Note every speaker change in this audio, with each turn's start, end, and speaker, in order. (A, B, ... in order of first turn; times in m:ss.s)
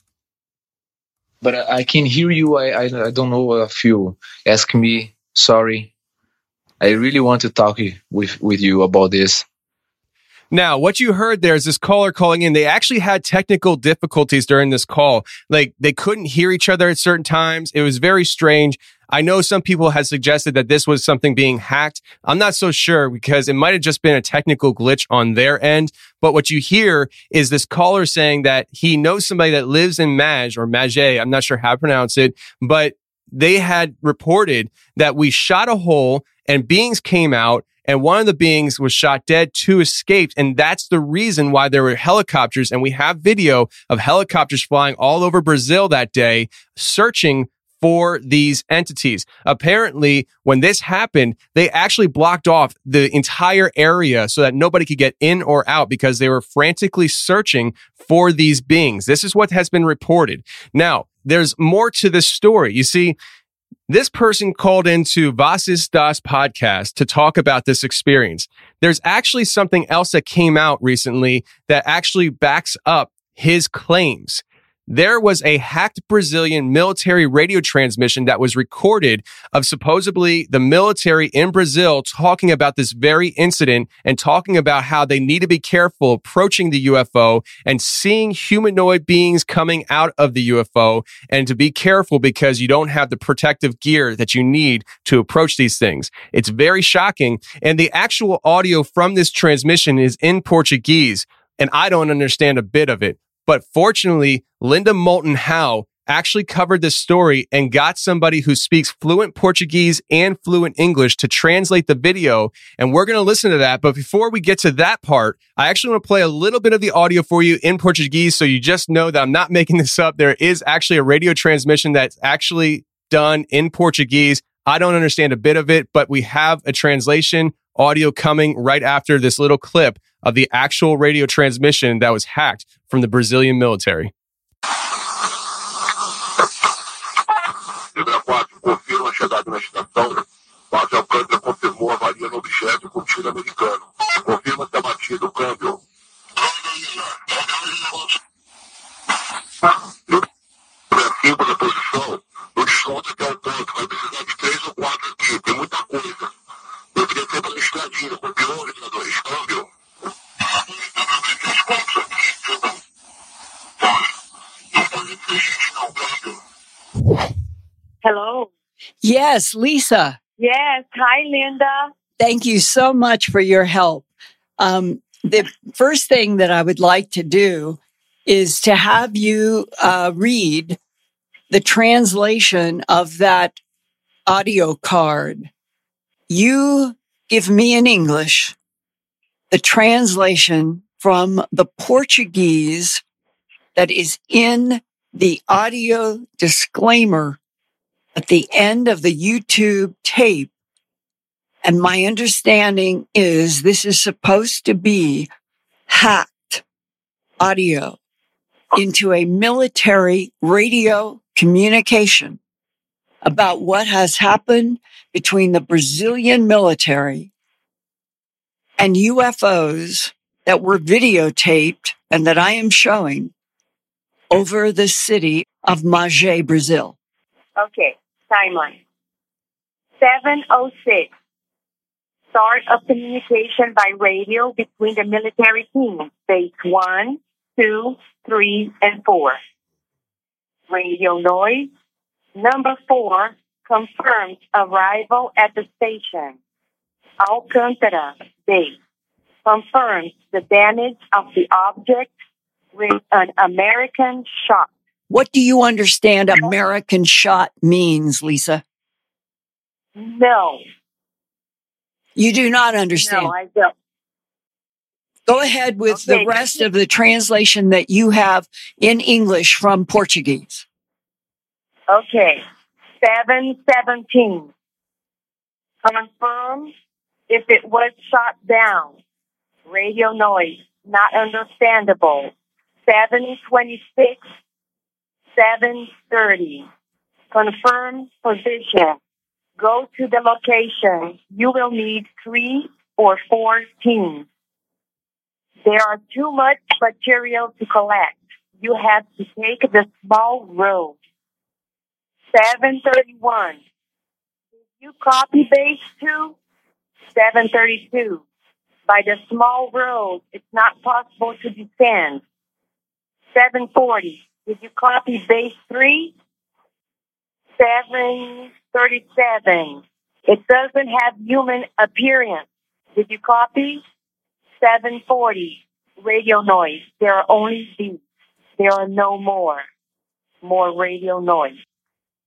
0:01.4-0:05.9 A
0:06.8-0:09.4 A
0:10.5-1:03.2 B
1:03.9-2:14.1 B
2:18.0-2:25.8 C
2:26.4-2:28.1 C
2:30.9-2:36.3 C
2:37.0-2:39.6 C
2:40.9-2:42.6 C
2:44.8-2:46.4 C
2:48.0-2:48.5 D
2:49.0-2:50.2 E
2:50.4-2:51.9 D
2:52.2-2:54.1 E
2:54.6-3:00.8 E
3:01.5-3:03.6 E
3:04.3-3:05.5 E
3:06.3-3:08.5 E
3:09.5-3:13.0 E
3:13.8-3:17.4 E
3:18.2-3:20.5 E
3:21.6-3:25.3 E
3:25.9-3:26.6 E
3:27.4-3:28.0 E
3:28.7-3:32.4 E
3:33.2-3:37.3 E
3:38.8-3:43.3 E
3:44.3-3:47.0 E
3:47.6-3:48.8 D
3:50.0-3:51.1 D
3:52.3-3:59.4 D
4:00.7-4:01.7 D
4:02.4-4:06.4 D
4:07.2-4:08.8 D
4:09.4-4:12.1 D
4:12.7-4:14.7 D
4:15.1-4:18.6 E
4:20.0-4:20.6 D
4:22.2-4:23.3 E
4:23.0-4:23.7 D
4:25.3-4:30.6 E
4:25.9-4:26.6 D
4:31.9-4:32.4 D
4:33.0-4:34.5 D
4:35.8-4:36.7 D
4:37.3-4:39.0 D
4:39.7-4:42.3 D
4:42.9-4:44.2 D
4:45.4-4:46.7 D
4:47.3-4:49.0 D
4:49.6-4:54.3 D
4:55.6-5:01.0 D
5:02.3-5:03.6 D
5:04.8-5:06.4 D
5:07.2-5:08.2 D
5:08.9-5:12.2 D
5:13.4-5:16.1 D
5:17.6-5:23.8 D
5:24.6-5:28.0 D
5:28.6-5:29.6 D
5:30.4-5:31.6 D